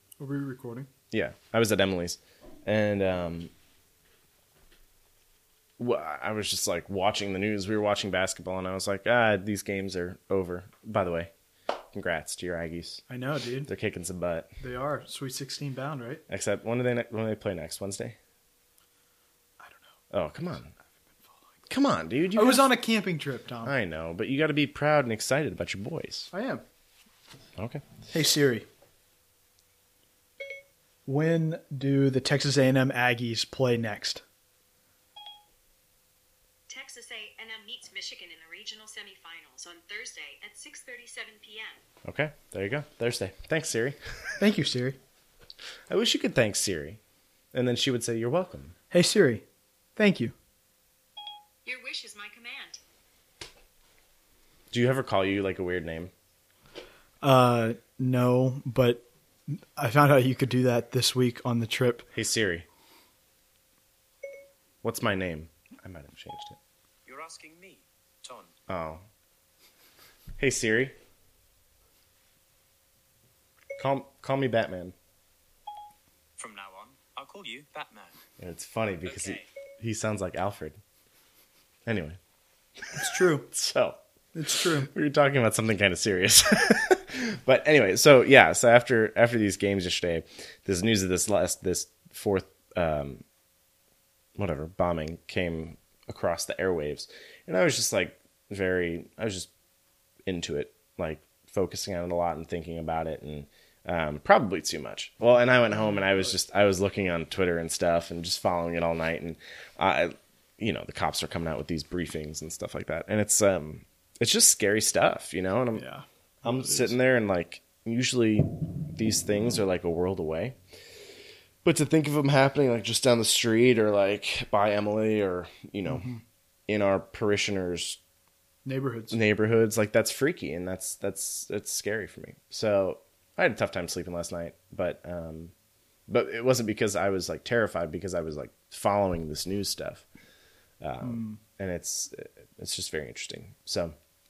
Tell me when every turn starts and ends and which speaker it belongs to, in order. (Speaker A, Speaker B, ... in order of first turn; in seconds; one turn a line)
Speaker A: 0.2-0.9
Speaker B: 1.1-3.5
Speaker B: 5.8-11.3
Speaker B: 11.9-13.0
Speaker A: 13.1-13.7
Speaker B: 13.7-14.5
Speaker A: 14.6-16.2
Speaker B: 16.3-18.2
Speaker A: 19.6-20.0
Speaker B: 20.1-20.7
Speaker B: 21.7-22.7
Speaker A: 22.4-23.7
Speaker B: 23.6-26.3
Speaker A: 26.3-26.6
Speaker B: 27.6-27.8
Speaker A: 28.1-28.7
Speaker A: 31.1-34.2
Speaker C: 36.7-41.8
Speaker B: 42.0-44.0
Speaker A: 44.4-45.0
Speaker B: 45.9-47.0
Speaker B: 47.5-48.7
Speaker A: 48.9-49.4
Speaker A: 50.0-50.3
Speaker C: 51.7-52.8
Speaker B: 54.7-56.1
Speaker A: 57.2-62.1
Speaker B: 62.1-62.7
Speaker B: 64.8-66.6
Speaker D: 67.1-68.5
Speaker B: 68.7-69.0
Speaker B: 70.4-71.0
Speaker B: 73.8-75.0
Speaker D: 76.4-78.1
Speaker B: 78.4-80.8
Speaker D: 79.1-79.5
Speaker B: 81.9-82.2
Speaker B: 82.9-84.0
Speaker A: 83.0-83.5
Speaker A: 84.3-84.9
Speaker B: 84.8-93.2
Speaker B: 94.4-99.5
Speaker B: 100.3-115.8
Speaker A: 105.7-106.3
Speaker A: 115.7-117.0
Speaker B: 116.4-120.6
Speaker B: 121.6-126.1
Speaker A: 125.9-126.2
Speaker B: 126.7-128.0
Speaker A: 128.7-129.2
Speaker B: 129.1-135.5
Speaker B: 136.1-140.0
Speaker B: 140.8-144.0
Speaker A: 141.0-141.4